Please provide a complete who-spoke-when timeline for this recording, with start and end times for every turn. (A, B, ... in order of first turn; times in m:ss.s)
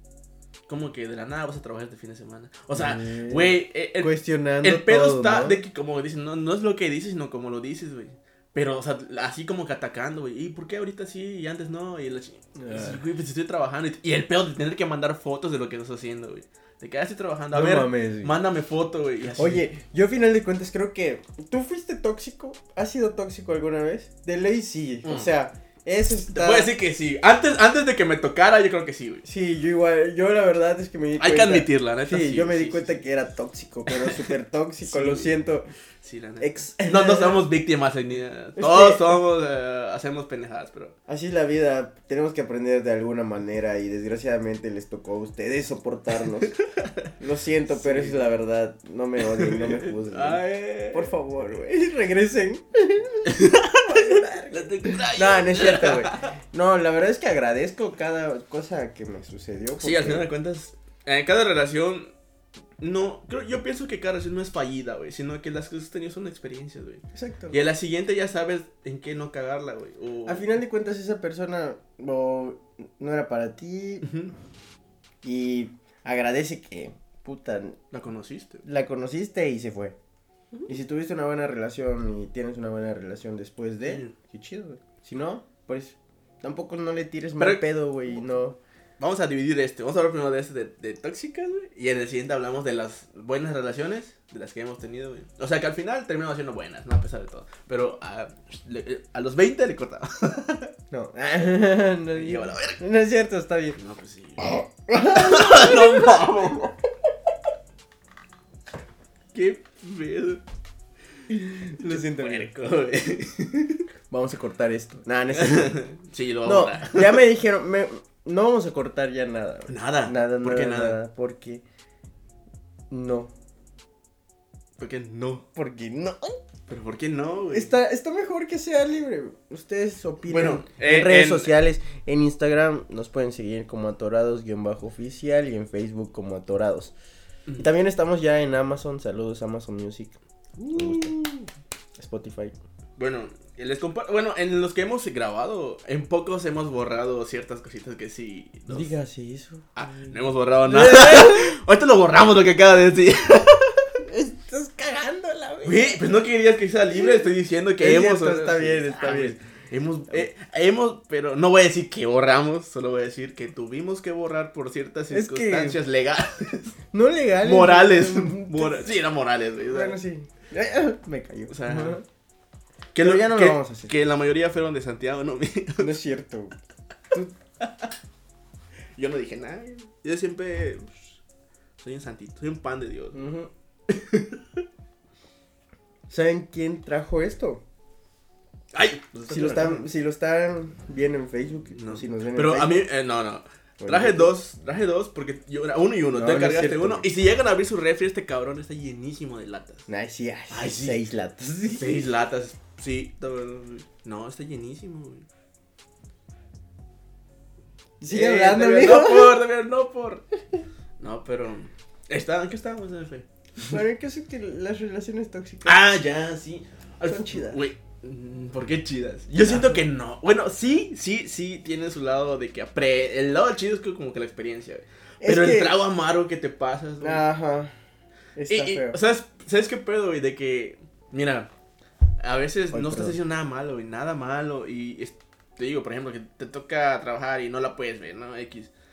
0:00.7-0:19.6 A
0:02.7-0:05.6 B
0:12.6-0:13.0 B
0:17.5-0:18.4 B
0:19.3-0:26.7 B
0:25.0-0:25.3 A
0:26.3-0:29.2 A
0:29.2-0:35.7 B
0:31.2-0:33.0 A
0:33.9-0:35.4 A
0:36.0-0:40.9 A
0:36.4-0:37.4 B
0:38.6-0:39.2 B
0:41.1-0:46.5 B
0:46.4-0:47.1 A
0:47.2-1:00.3 B
0:47.7-0:48.3 A
0:49.3-0:51.1 A
0:53.2-0:56.3 A
0:59.8-1:02.1 A
1:02.8-1:10.5 A
1:07.1-1:07.6 B
1:10.2-1:14.1 B
1:14.0-1:14.3 A
1:15.2-1:17.8 B
1:17.9-1:18.6 A
1:18.6-1:19.9 B
1:20.6-1:28.6 B
1:23.8-1:24.1 A
1:27.4-1:28.3 A
1:29.0-1:40.7 A
1:40.9-1:43.8 B
1:42.1-1:42.8 A
1:43.8-1:46.7 A
1:44.4-1:46.3 B
1:49.3-1:50.4 A
1:51.3-1:52.5 B
1:51.8-1:53.8 A
1:54.1-1:55.8 B
1:55.3-1:57.2 A
1:56.4-2:01.6 B
1:59.7-2:01.0 A
2:02.9-2:03.3 B
2:04.8-2:05.4 A
2:05.5-2:06.4 B
2:06.7-2:07.7 A
2:07.5-2:16.9 B
2:10.3-2:11.5 A
2:17.6-2:20.2 B
2:20.6-2:21.2 A
2:20.7-2:22.5 B
2:23.0-2:28.9 A
2:28.7-2:31.5 B
2:29.8-2:33.9 A
2:34.0-2:36.1 B
2:35.6-2:46.8 A
2:36.9-2:39.4 B
2:45.1-2:45.8 B
2:46.9-2:48.9 B
2:47.4-2:50.0 A
2:49.6-2:52.0 B
2:51.5-2:52.0 A
2:52.9-2:55.9 A
2:53.0-2:53.9 B
2:55.8-2:56.5 B
2:57.6-2:57.9 A
2:59.0-3:01.2 A
3:01.8-3:03.2 A
3:03.1-3:03.5 B
3:03.9-3:04.6 A
3:06.1-3:07.6 B
3:08.7-3:09.9 A
3:09.3-3:12.8 B
3:11.7-3:19.8 A
3:13.8-3:14.3 B
3:16.1-3:17.1 B
3:19.9-3:22.1 B
3:20.5-3:21.0 A
3:21.7-3:25.3 A
3:28.0-3:29.4 B
3:28.1-3:30.2 A
3:31.0-3:33.8 A
3:33.6-3:35.8 B
3:35.6-3:47.2 A
3:37.0-3:37.6 B
3:39.5-3:39.8 B
3:45.2-3:45.8 B
3:47.0-3:47.7 B
3:48.4-3:49.0 B
3:48.5-3:51.5 A
3:52.2-3:58.7 A
3:52.7-3:53.2 B